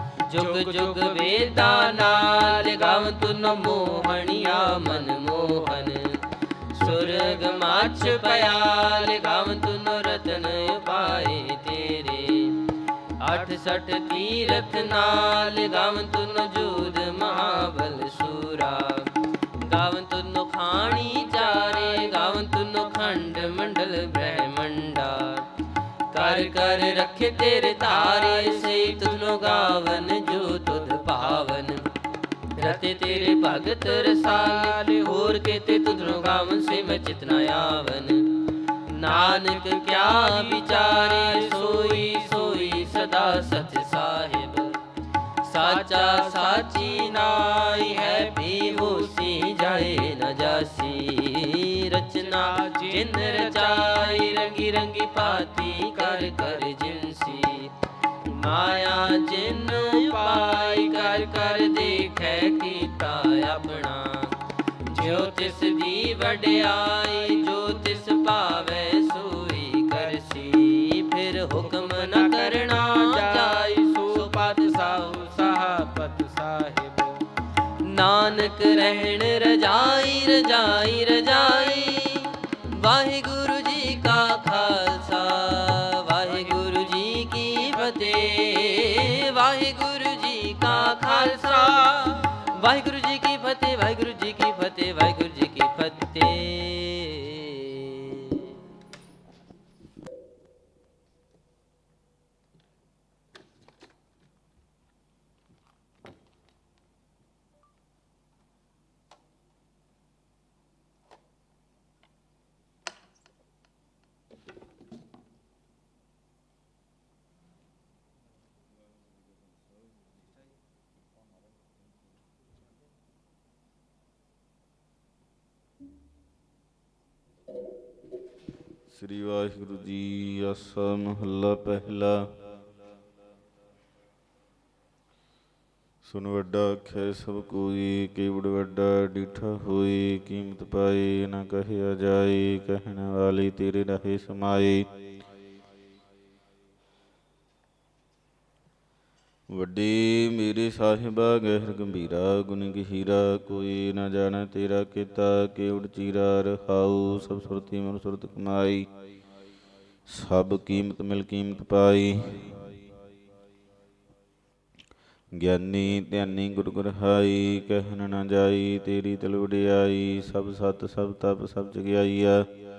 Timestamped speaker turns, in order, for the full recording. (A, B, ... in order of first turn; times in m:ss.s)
0:00.2-0:25.5 A
0:00.4-0:02.0 B
0:03.8-0:04.8 B
0:07.0-0:08.5 B
0:26.1-0:31.9 A
0:32.6-0:44.8 A
0:33.7-0:35.2 B
0:40.2-0:42.7 B
0:45.4-1:15.7 A
0:45.6-0:48.3 B
0:52.2-0:53.7 B
1:00.3-1:01.4 B
1:11.8-1:17.2 B
1:17.8-1:38.6 A
1:30.9-1:31.9 B
2:08.9-2:12.4 C
2:16.0-2:24.9 C
2:29.5-2:38.9 C
2:40.1-2:42.6 C
2:45.4-2:52.5 C